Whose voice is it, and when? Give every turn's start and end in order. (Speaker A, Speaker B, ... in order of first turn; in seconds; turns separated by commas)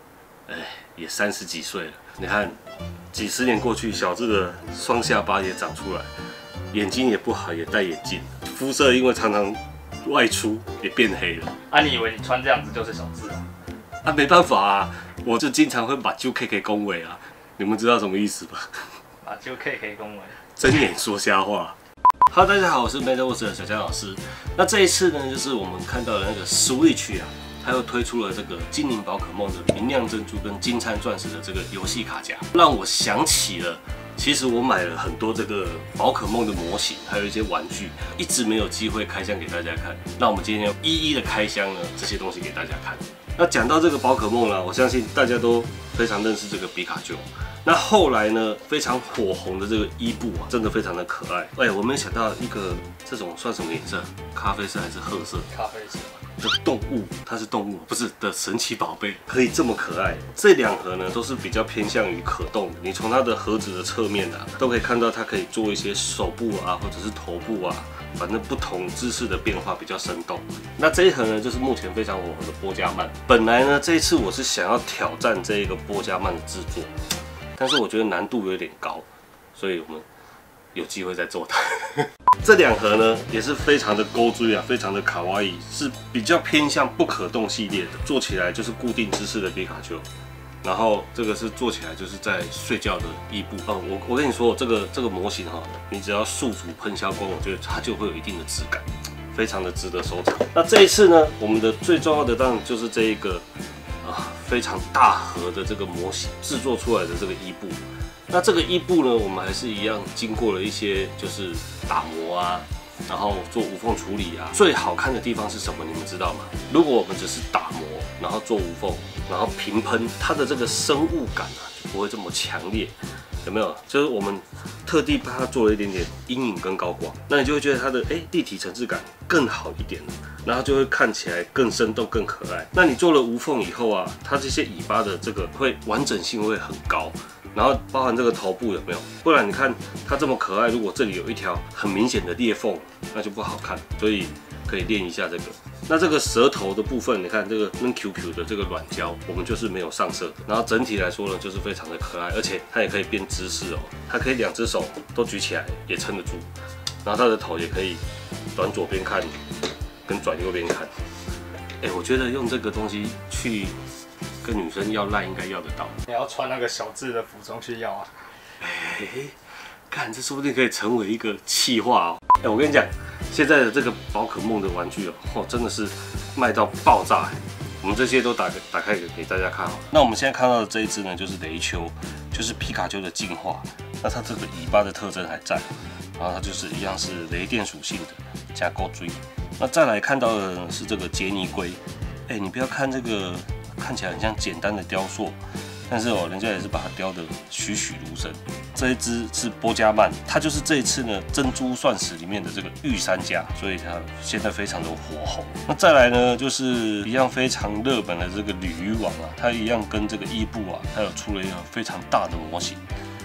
Speaker A: 0.5-2.6, Speaker A: 3.1-6.1, Speaker A: 6.7-11.5, Speaker B: 11.7-13.4, Speaker A: 14.0-19.0, Speaker B: 19.2-20.4, Speaker A: 20.5-21.8, Speaker A: 22.3-55.5, Speaker B: 55.5-56.2, Speaker A: 56.4-76.9, Speaker A: 77.5-80.0, Speaker A: 80.7-90.1, Speaker A: 90.6-103.5, Speaker A: 104.0-156.5, Speaker A: 157.0-158.0, Speaker A: 158.5-159.4, Speaker A: 160.1-160.9, Speaker A: 161.8-163.8, Speaker A: 164.4-166.0, Speaker B: 166.1-168.1, Speaker A: 168.6-169.4, Speaker A: 169.9-212.8